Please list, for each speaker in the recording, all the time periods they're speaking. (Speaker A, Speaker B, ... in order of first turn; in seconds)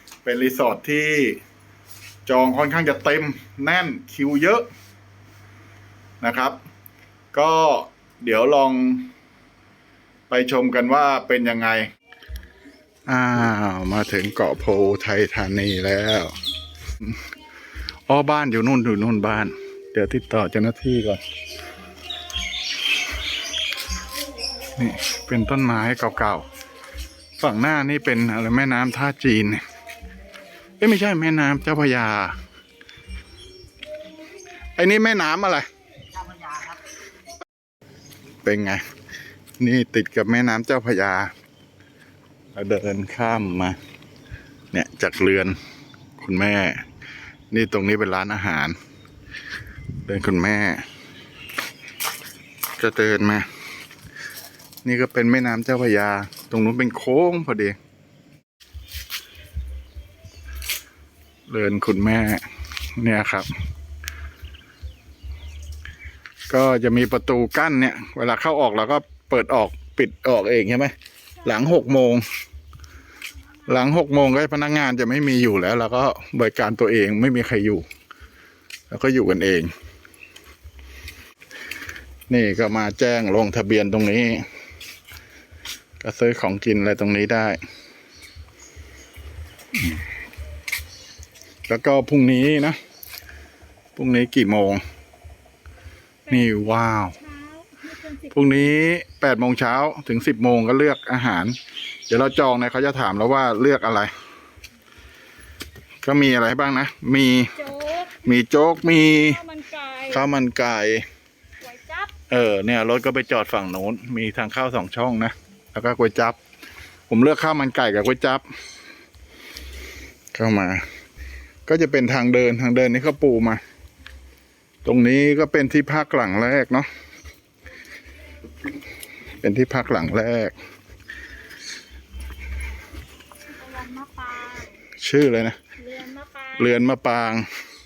Speaker A: 0.2-1.4, 2.2-4.7, 6.2-6.6, 7.3-9.1, 10.3-11.9, 13.1-16.3, 18.1-21.2, 24.8-26.4, 27.4-29.6, 30.8-32.4, 34.8-35.7, 38.4-38.8, 39.6-41.3, 42.5-43.8, 44.7-45.6, 46.2-46.8, 47.5-48.8, 50.0-50.8, 52.8-53.5, 54.8-57.8, 61.5-62.4, 63.0-63.5, 66.5-70.9, 71.4-72.2, 73.7-77.8, 78.9-79.7, 82.3-84.4, 86.0-87.6, 91.7-92.8, 94.0-94.8, 96.3-97.2, 98.3-101.5, 102.1-104.1, 106.0-107.5, 108.2-109.4, 110.1-111.0, 112.3-116.4, 117.1-118.4, 120.3-120.8, 121.7-123.6, 124.8-126.9, 129.4-130.5, 135.0-135.6, 136.6-137.5
Speaker B: 97.2-98.7, 107.5-108.2, 109.2-110.2, 111.6-112.1, 133.5-134.7, 135.8-136.7